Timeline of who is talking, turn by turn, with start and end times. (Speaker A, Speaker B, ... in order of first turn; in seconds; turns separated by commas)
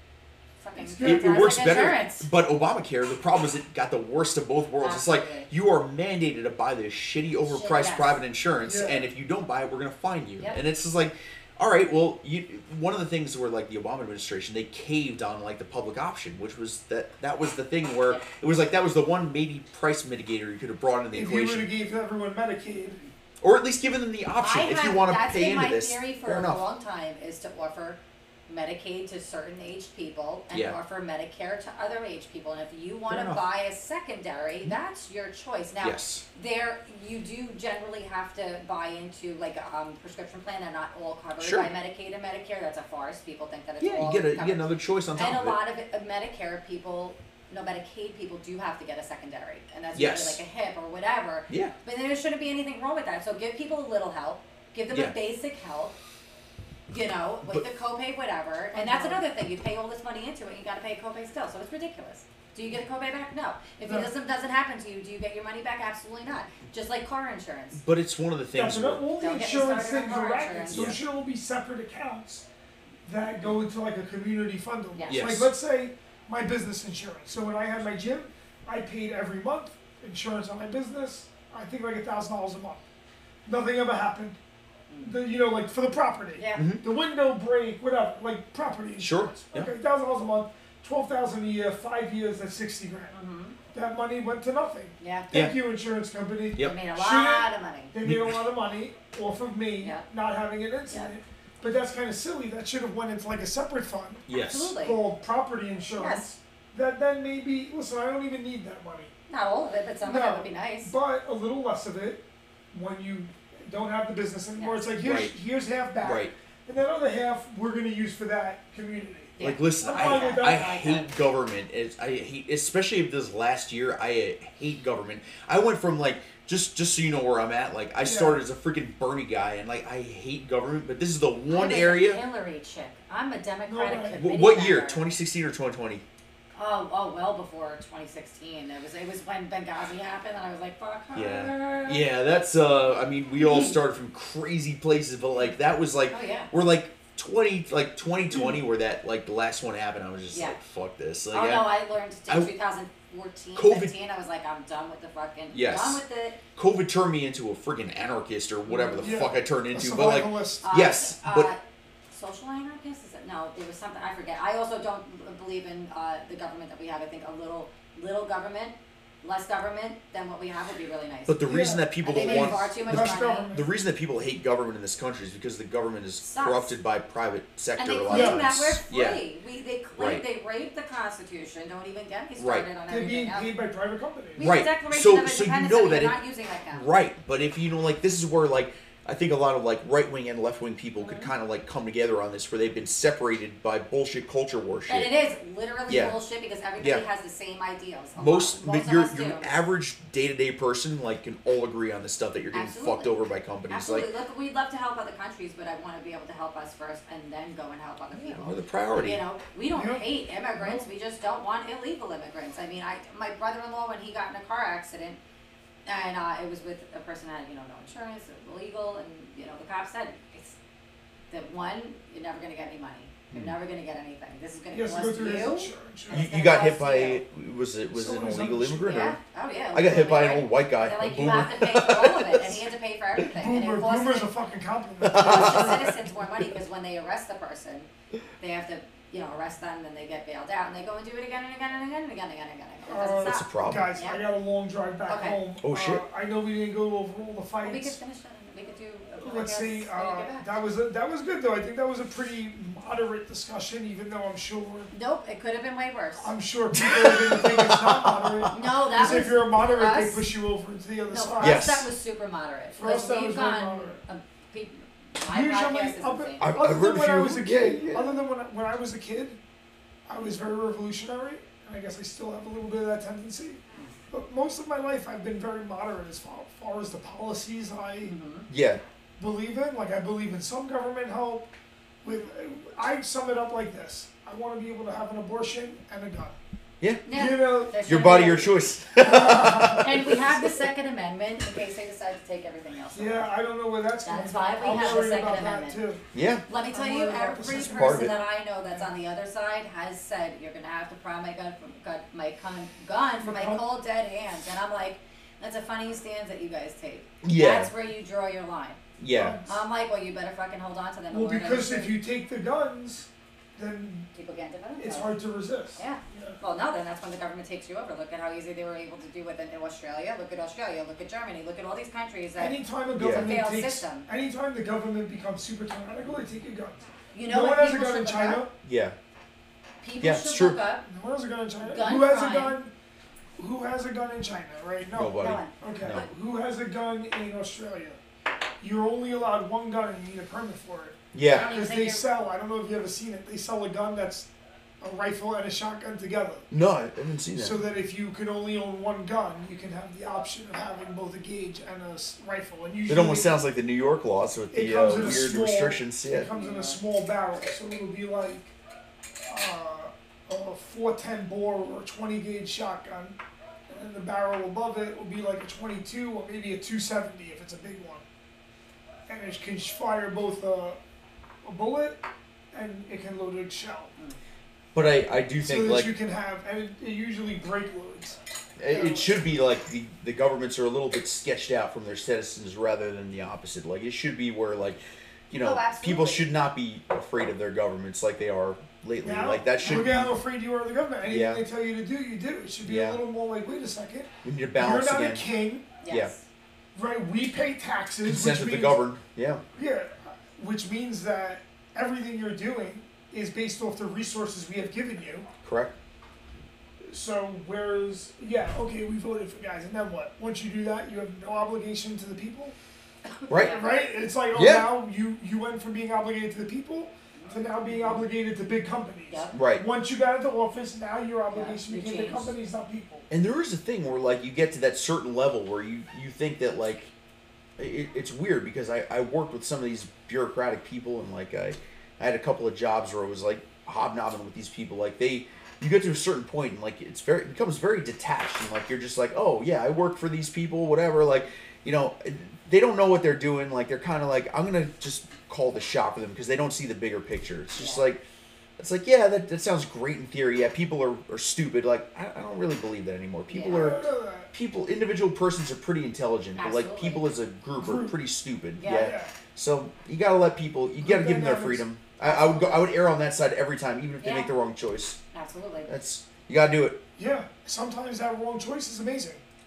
Speaker A: 0.6-2.3, Speaker B: 0.8-1.5, Speaker C: 1.0-21.7, Speaker A: 4.8-5.5, Speaker A: 7.5-8.2, Speaker B: 8.6-9.0, Speaker B: 21.1-23.0, Speaker C: 23.4-26.6, Speaker A: 24.4-56.0, Speaker C: 30.5-30.8, Speaker C: 33.1-33.4, Speaker C: 35.8-36.2, Speaker C: 41.4-41.7, Speaker C: 43.8-45.6, Speaker C: 49.9-50.4, Speaker C: 51.5-51.8, Speaker A: 56.9-67.8, Speaker B: 58.7-59.2, Speaker C: 67.8-69.1, Speaker B: 68.5-72.5, Speaker A: 69.2-71.0, Speaker C: 70.7-71.0, Speaker B: 73.1-82.8, Speaker C: 75.1-75.5, Speaker B: 83.5-84.4, Speaker A: 84.9-85.2, Speaker B: 85.0-93.2, Speaker A: 86.4-86.7, Speaker C: 86.5-86.8, Speaker C: 89.0-89.7, Speaker A: 93.1-93.6, Speaker B: 93.7-104.3, Speaker A: 95.0-95.3, Speaker A: 96.6-97.9, Speaker C: 98.0-98.4, Speaker C: 104.3-104.7, Speaker A: 104.3-105.0, Speaker B: 104.8-109.1, Speaker A: 106.0-106.3, Speaker A: 109.3-110.9, Speaker B: 110.0-120.8, Speaker A: 114.6-114.9, Speaker C: 115.0-115.3, Speaker C: 116.0-116.3, Speaker A: 119.4-121.1, Speaker C: 119.4-132.2, Speaker B: 128.0-128.4, Speaker A: 131.5-135.1, Speaker B: 133.7-134.2, Speaker C: 134.2-136.0, Speaker A: 136.6-142.1, Speaker C: 141.1-151.7, Speaker A: 143.4-143.8, Speaker A: 146.1-146.5, Speaker A: 150.3-150.6, Speaker A: 151.3-156.4, Speaker C: 153.6-153.9, Speaker C: 155.5-156.0, Speaker C: 156.6-161.5, Speaker A: 158.7-159.2, Speaker B: 159.0-160.7, Speaker A: 160.6-161.6, Speaker A: 162.1-173.5, Speaker C: 171.3-179.2, Speaker B: 171.5-173.7, Speaker A: 176.2-176.7, Speaker A: 177.8-183.5, Speaker B: 178.1-178.4, Speaker C: 180.0-180.2, Speaker C: 182.4-182.7, Speaker B: 182.9-184.6, Speaker A: 184.4-186.9, Speaker C: 184.4-186.2, Speaker C: 186.7-195.1, Speaker A: 191.0-191.3, Speaker A: 194.9-199.5, Speaker C: 195.9-196.2, Speaker C: 198.2-204.1, Speaker A: 202.5-215.2, Speaker C: 208.1-209.2, Speaker B: 209.7-210.8, Speaker A: 215.9-220.6, Speaker A: 221.3-227.2, Speaker B: 224.7-226.3, Speaker C: 226.1-229.2, Speaker B: 227.9-229.0, Speaker A: 228.9-234.3, Speaker C: 229.7-232.6, Speaker B: 233.4-235.8, Speaker C: 235.0-236.1, Speaker A: 235.2-237.9, Speaker A: 238.4-244.2, Speaker B: 242.9-248.0, Speaker C: 243.2-243.9, Speaker A: 245.1-245.4, Speaker C: 245.6-246.1, Speaker A: 247.6-250.5, Speaker B: 249.2-254.9, Speaker A: 254.9-256.3, Speaker B: 256.2-261.8, Speaker C: 256.7-258.7, Speaker A: 258.5-260.3, Speaker A: 261.1-266.5, Speaker C: 261.4-261.9, Speaker B: 262.8-264.0, Speaker B: 265.2-269.4, Speaker C: 266.4-268.2, Speaker B: 270.1-278.1, Speaker A: 278.0-278.5, Speaker C: 278.5-278.8, Speaker B: 279.2-281.5, Speaker B: 282.0-286.4, Speaker A: 287.1-288.5, Speaker B: 287.1-288.5, Speaker C: 287.9-290.5, Speaker B: 289.0-290.1, Speaker A: 289.7-293.3, Speaker B: 292.9-296.0, Speaker A: 294.1-295.8, Speaker C: 296.1-296.4, Speaker A: 296.5-308.8, Speaker B: 296.7-298.1, Speaker C: 297.7-298.1, Speaker B: 303.2-303.6, Speaker C: 307.2-307.7, Speaker C: 309.0-309.4, Speaker B: 309.1-309.5, Speaker A: 309.5-312.0, Speaker B: 311.1-314.1, Speaker A: 314.1-315.2, Speaker B: 314.8-316.4, Speaker A: 315.8-324.1, Speaker B: 322.4-328.5, Speaker C: 323.0-323.3, Speaker A: 327.1-328.4, Speaker C: 328.6-329.0, Speaker A: 329.8-330.9, Speaker C: 330.0-330.6, Speaker B: 330.8-332.7, Speaker A: 331.6-332.6, Speaker B: 333.4-338.0, Speaker C: 334.9-336.1, Speaker A: 335.2-336.1, Speaker B: 338.6-344.3, Speaker C: 341.1-341.5, Speaker A: 341.3-342.1, Speaker B: 344.8-346.5, Speaker C: 346.5-347.6, Speaker B: 347.4-353.3, Speaker C: 352.9-356.3, Speaker B: 354.5-358.5, Speaker A: 356.2-356.8, Speaker B: 359.3-363.2, Speaker B: 363.7-368.1, Speaker B: 369.1-370.8, Speaker B: 371.4-372.0, Speaker B: 372.5-373.9, Speaker C: 374.7-375.9, Speaker B: 375.4-379.1, Speaker C: 378.6-384.8, Speaker C: 385.3-390.1, Speaker A: 385.3-386.3, Speaker B: 389.0-395.7, Speaker C: 391.1-391.4, Speaker C: 392.6-393.0, Speaker C: 394.2-395.3, Speaker A: 395.8-396.2, Speaker C: 395.9-396.1, Speaker B: 396.8-398.8, Speaker C: 398.0-399.4, Speaker B: 399.6-405.3, Speaker C: 405.4-405.7, Speaker B: 406.9-412.6, Speaker A: 413.1-413.8, Speaker C: 413.3-413.6, Speaker B: 413.4-423.1, Speaker C: 414.3-414.7, Speaker A: 417.2-418.0, Speaker A: 419.1-419.4, Speaker C: 419.3-419.6, Speaker A: 421.3-422.3, Speaker C: 423.1-426.9, Speaker C: 427.6-448.0, Speaker A: 447.6-447.8, Speaker C: 448.6-465.0, Speaker A: 453.3-453.8, Speaker B: 453.5-454.3, Speaker A: 456.4-457.1, Speaker B: 457.6-458.0, Speaker A: 458.6-459.0, Speaker B: 458.8-459.1, Speaker B: 460.8-461.7, Speaker A: 462.0-462.8, Speaker A: 464.0-464.3, Speaker A: 465.1-465.7, Speaker C: 465.7-466.8, Speaker B: 467.0-469.2